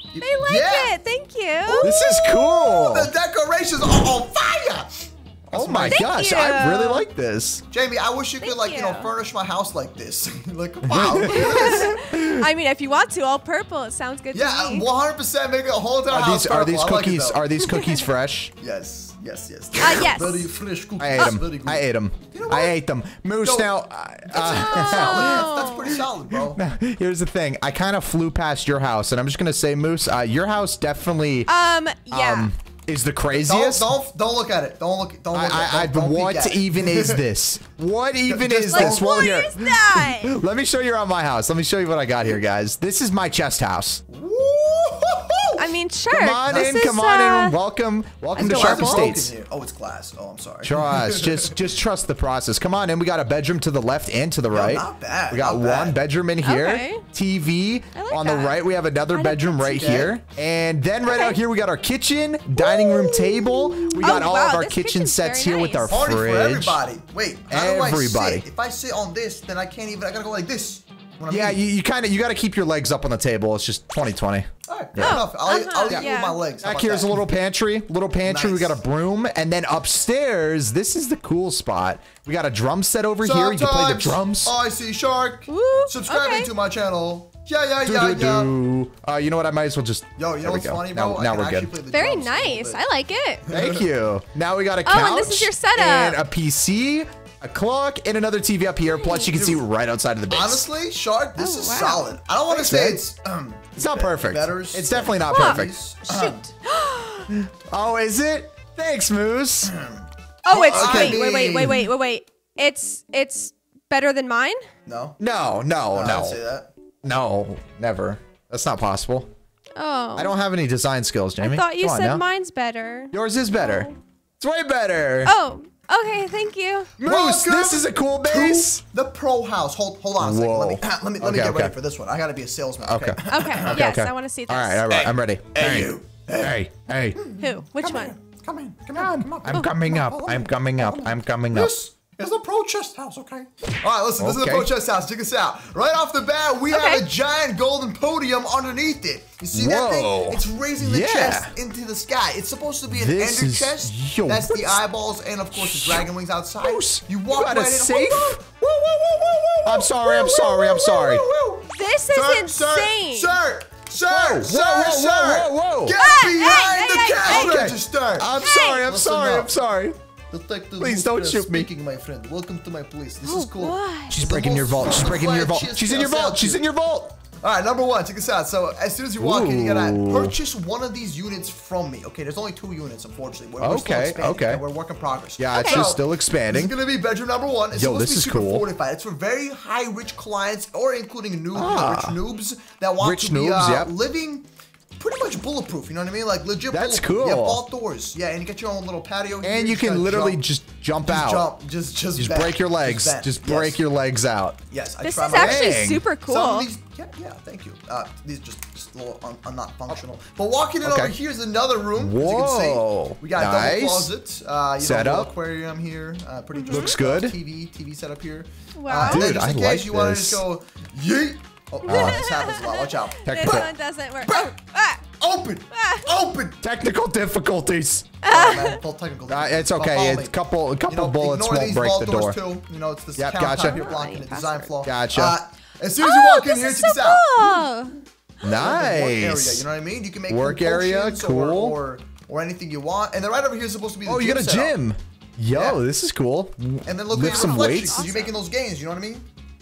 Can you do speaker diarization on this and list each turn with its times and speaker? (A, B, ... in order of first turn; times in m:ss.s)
0:00.1-0:00.9 A
0:00.2-0:02.9 B
0:01.7-0:06.1 A
0:01.8-0:03.1 C
0:05.5-0:07.6 C
0:05.9-0:07.0 B
0:07.7-0:12.0 A
0:08.4-0:09.1 B
0:10.8-0:12.5 C
0:11.2-0:14.9 B
0:14.3-0:17.6 A
0:16.1-0:18.5 C
0:18.6-0:22.7 A
0:19.8-0:20.5 B
0:21.0-0:31.5 C
0:23.4-0:23.7 A
0:24.3-0:26.6 A
0:24.3-0:26.0 B
0:31.5-0:32.5 B
0:32.1-0:33.9 C
0:33.3-0:37.2 A
0:35.3-0:44.0 C
0:38.3-0:39.4 A
0:38.7-0:40.4 B
0:44.1-0:45.7 A
0:45.6-0:47.6 B
0:46.1-0:49.3 C
0:48.4-0:51.6 A
0:48.4-0:49.1 B
0:50.6-1:06.8 C
0:54.5-0:56.0 A
0:56.4-0:57.0 B
0:57.9-0:59.9 B
0:59.6-1:00.2 A
1:01.0-1:01.4 B
1:02.6-1:06.0 B
1:05.9-1:11.6 A
1:07.5-1:08.4 C
1:11.3-1:15.2 C
1:14.7-1:17.2 A
1:15.0-1:16.4 B
1:16.6-1:24.5 C
1:18.2-1:18.8 A
1:23.2-1:28.5 A
1:25.5-1:26.5 B
1:27.8-1:31.7 C
1:30.2-1:32.8 A
1:31.9-1:33.4 B
1:33.4-1:33.8 A
1:33.5-1:40.6 C
1:34.8-1:36.2 B
1:39.0-1:39.3 B
1:40.3-1:46.5 A
1:41.4-1:42.1 B
1:42.5-1:43.0 C
1:43.8-1:45.7 C
1:45.3-1:47.3 B
1:47.3-1:49.7 C
1:49.6-1:51.9 A
1:50.4-1:54.7 B
1:50.5-1:51.3 C
1:54.8-1:55.2 A
1:55.2-1:56.4 C
1:55.9-1:56.7 A
1:57.0-1:59.3 C
1:59.8-2:00.4 B
2:00.2-2:02.2 C
2:01.4-2:03.9 B
2:03.1-2:05.3 C
2:05.2-2:06.9 B
2:07.0-2:08.8 C
2:07.0-2:13.8 A
2:10.2-2:11.8 C
2:12.8-2:17.2 C
2:13.3-2:14.9 B
2:14.9-2:16.6 A
2:17.1-2:49.5 A
2:17.4-2:18.1 B
2:18.9-2:21.7 C
2:24.2-2:24.7 C
2:26.7-2:27.0 B
2:29.5-2:31.5 C
2:32.9-2:34.8 C
2:35.5-2:36.1 C
2:36.6-2:38.5 C
2:39.6-2:41.2 C
2:40.2-2:40.9 B
2:41.6-2:43.4 B
2:44.0-2:46.0 C
2:46.0-2:47.7 B
2:47.2-2:50.0 C
2:48.4-2:48.8 B
2:50.3-2:56.6 A
2:50.8-2:51.7 C
2:53.2-2:54.2 B
2:54.1-2:57.2 C
2:57.4-3:20.4 A
2:59.2-3:00.4 C
3:03.6-3:04.6 C
3:05.4-3:06.7 C
3:05.5-3:05.9 B
3:07.7-3:08.6 C
3:11.5-3:12.2 C
3:13.0-3:13.9 C
3:16.7-3:17.6 C
3:19.4-3:21.5 C
3:21.0-3:23.8 A
3:22.2-3:24.6 C
3:24.7-3:43.6 A
3:25.0-3:26.7 B
3:25.3-3:26.0 C
3:30.8-3:31.2 C
3:32.0-3:34.1 C
3:34.8-3:35.3 C
3:36.5-3:36.9 B
3:36.7-3:37.3 C
3:38.8-3:39.2 B
3:39.0-3:40.4 C
3:41.8-3:42.3 C
3:41.8-3:45.0 B
3:43.2-3:43.7 C
3:44.2-3:44.5 A
3:45.2-3:46.6 A
3:45.7-3:46.1 B
3:46.6-3:48.2 C
3:48.2-3:48.8 B
3:48.2-3:57.6 A
3:49.3-3:52.4 C
3:53.2-3:53.9 C
3:53.4-3:54.7 B
3:54.8-3:55.4 C
3:56.0-3:58.0 B
3:58.4-3:59.7 C
3:58.5-4:04.8 A
4:00.3-4:01.8 C
4:04.0-4:08.0 C
4:05.5-4:05.8 A
4:06.8-4:09.3 A
4:07.2-4:08.4 B